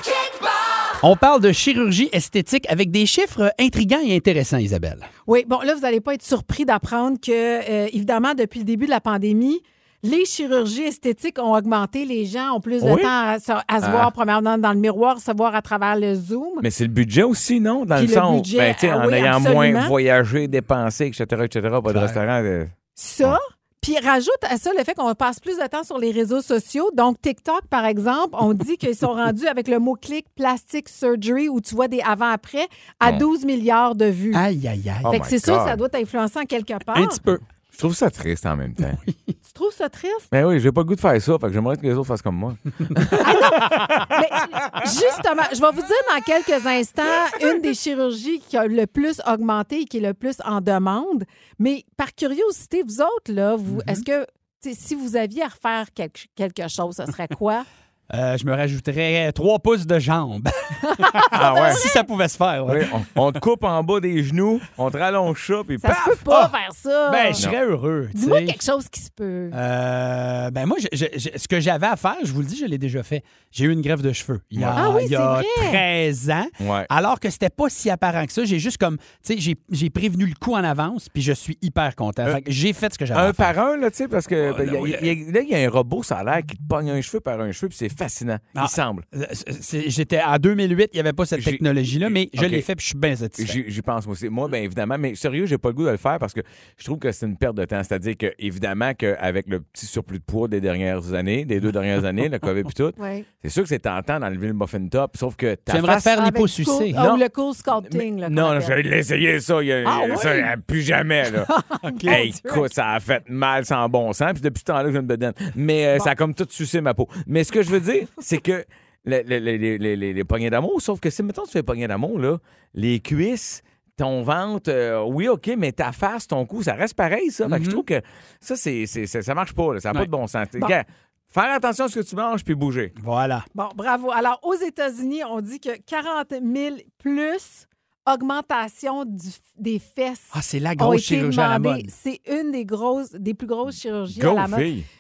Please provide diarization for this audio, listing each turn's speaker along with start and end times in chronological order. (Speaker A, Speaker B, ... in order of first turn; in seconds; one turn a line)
Speaker A: 1.0-5.1
Speaker B: 5.3-16.6
Speaker C: 12.8-13.1
Speaker C: 13.8-14.1
Speaker C: 16.6-23.4
Speaker B: 17.9-19.9
Speaker A: 21.9-22.2
Speaker B: 23.0-34.4
Speaker A: 34.3-35.2
Speaker C: 35.0-35.8
Speaker B: 35.1-37.2
Speaker A: 36.9-37.4
Speaker C: 37.7-39.0
Speaker A: 38.9-39.3
Speaker B: 39.5-40.3
Speaker C: 40.3-44.1
Speaker B: 43.2-57.6
Speaker A: 53.7-54.0
Speaker A: 58.1-63.3
Speaker B: 60.8-62.0
Speaker C: 61.3-61.8
Speaker C: 62.7-66.3
Speaker B: 65.8-67.4
Speaker A: 67.1-68.6
Speaker B: 68.1-69.6
Speaker A: 69.5-83.5
Speaker C: 74.5-74.8
Speaker B: 74.8-75.8
Speaker C: 76.6-76.9
Speaker C: 83.1-89.0
Speaker A: 84.4-85.1
Speaker A: 88.5-93.6
Speaker C: 91.3-92.6
Speaker C: 93.4-106.2
Speaker B: 103.0-103.2
Speaker A: 105.7-107.0
Speaker B: 106.1-108.8
Speaker C: 106.9-107.2
Speaker C: 107.8-111.5
Speaker B: 109.8-110.5
Speaker B: 111.4-112.7
Speaker A: 111.8-112.2
Speaker C: 112.0-132.9
Speaker A: 127.4-127.8
Speaker A: 133.0-133.4
Speaker B: 133.5-144.7
Speaker A: 140.3-141.9
Speaker C: 144.1-144.9